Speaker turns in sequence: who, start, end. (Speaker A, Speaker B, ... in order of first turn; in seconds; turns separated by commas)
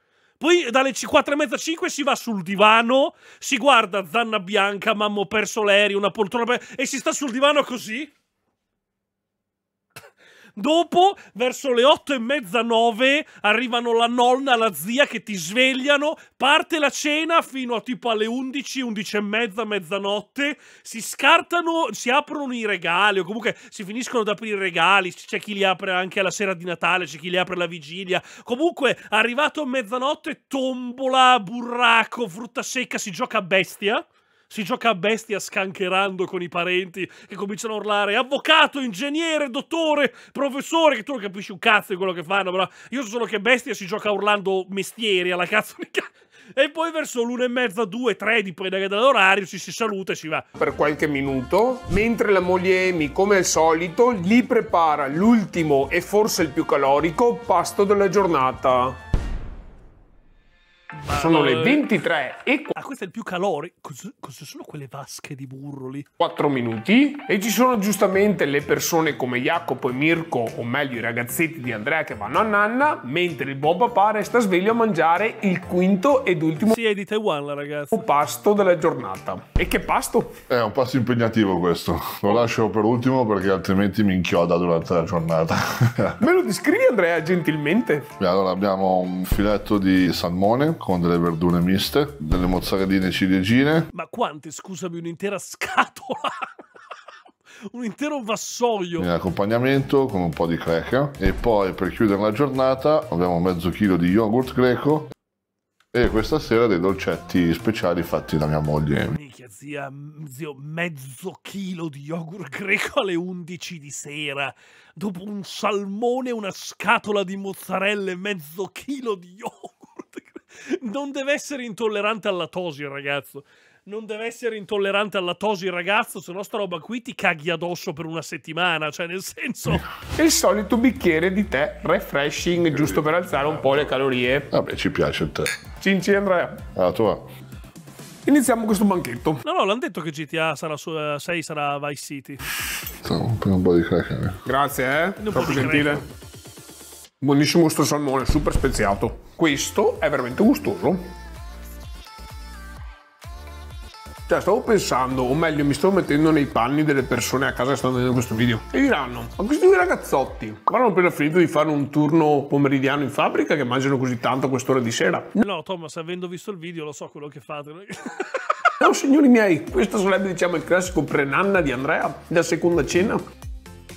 Speaker A: 0.4-8.1, Speaker A: 10.6-50.5, Speaker B: 50.6-59.0, Speaker A: 60.9-61.8, Speaker B: 61.1-62.8, Speaker A: 62.8-66.1, Speaker B: 66.2-76.8, Speaker A: 76.6-78.0, Speaker B: 77.9-80.3, Speaker C: 80.5-86.2, Speaker B: 86.2-88.1, Speaker C: 88.2-93.9, Speaker A: 93.9-96.5, Speaker A: 97.7-99.1, Speaker C: 99.0-105.1, Speaker C: 105.9-109.2, Speaker A: 109.1-129.8, Speaker B: 130.1-134.5, Speaker C: 134.5-135.6, Speaker B: 135.8-136.6, Speaker C: 136.7-137.2, Speaker B: 138.2-139.4, Speaker A: 139.4-142.4, Speaker C: 142.9-144.4, Speaker B: 144.4-146.0, Speaker A: 145.2-146.0, Speaker B: 147.2-151.1, Speaker B: 154.3-165.3, Speaker A: 165.4-168.5, Speaker B: 168.8-173.2